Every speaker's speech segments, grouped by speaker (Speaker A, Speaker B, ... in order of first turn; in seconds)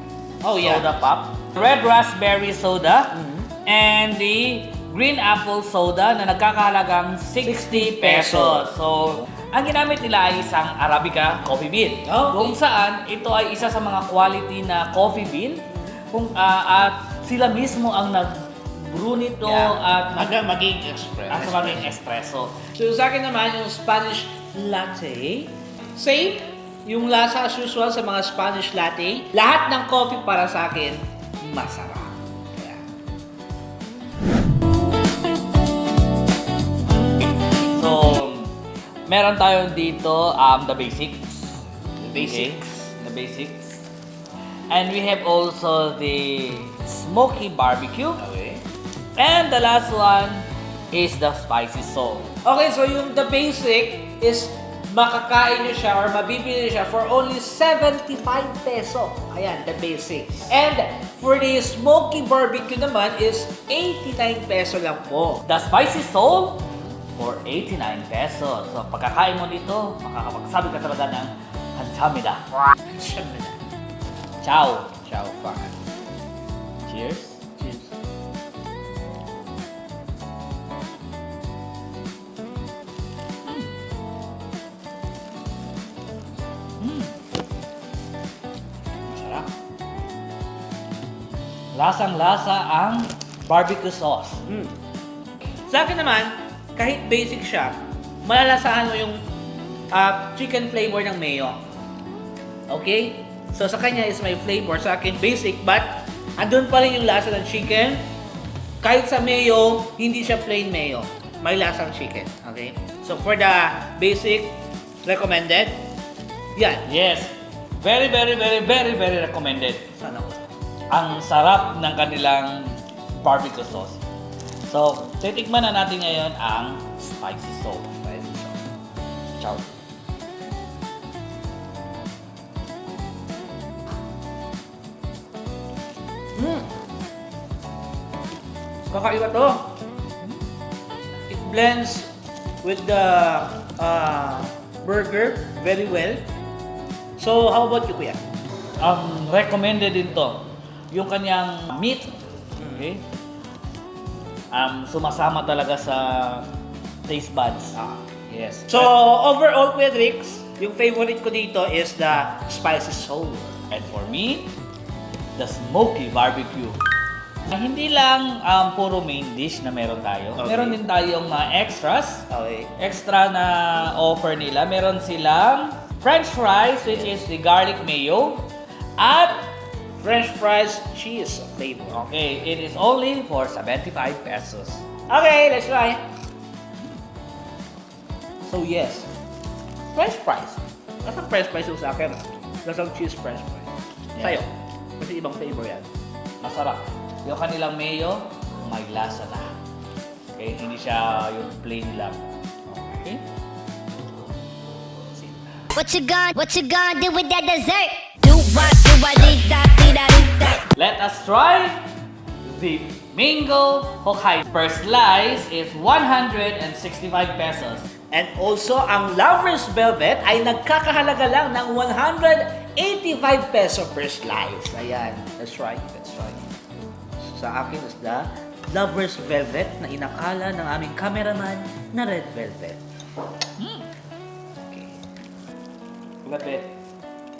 Speaker A: 0.4-0.9, 3.1-3.5, 7.4-8.7, 12.1-12.6, 19.4-21.9, 22.8-32.8, 42.0-42.6, 48.2-48.6, 52.4-65.4, 72.9-73.6, 75.0-75.7, 77.6-77.9, 94.5-94.7, 95.7-99.2, 99.9-101.6, 102.7-108.0, 108.8-115.8, 116.5-116.8, 120.0-120.5, 128.0-128.6, 136.4-136.7, 138.9-139.7, 141.3-142.1, 142.6-146.2, 147.2-148.2, 152.6-152.9, 158.7-163.6, 170.4-170.8, 172.3-172.7, 180.0-182.0, 185.1-186.0, 188.4-189.1, 189.9-195.9, 218.1-226.4, 227.2-232.8, 234.7-234.9
Speaker B: 0.6-20.4, 21.3-22.6, 37.6-38.5, 39.1-43.9, 44.7-48.2, 49.1-52.3, 65.4-72.4, 74.4-74.9, 76.9-77.4, 83.4-83.7, 86.8-87.1, 89.1-89.5, 91.7-94.4, 116.8-119.8, 120.9-124.0, 124.7-127.9, 129.4-129.6, 148.8-152.1, 152.7-153.0, 154.5-156.5, 157.1-157.8, 158.3-158.9, 163.7-164.5, 165.4-166.8, 167.5-172.2, 172.8-178.4, 179.0-179.5, 181.9-184.8, 194.1-194.4, 196.4-199.5, 200.4-202.3, 202.8-203.2, 210.8-211.8, 212.4-217.8, 233.6-233.8, 236.2-236.7
Speaker C: 205.8-210.7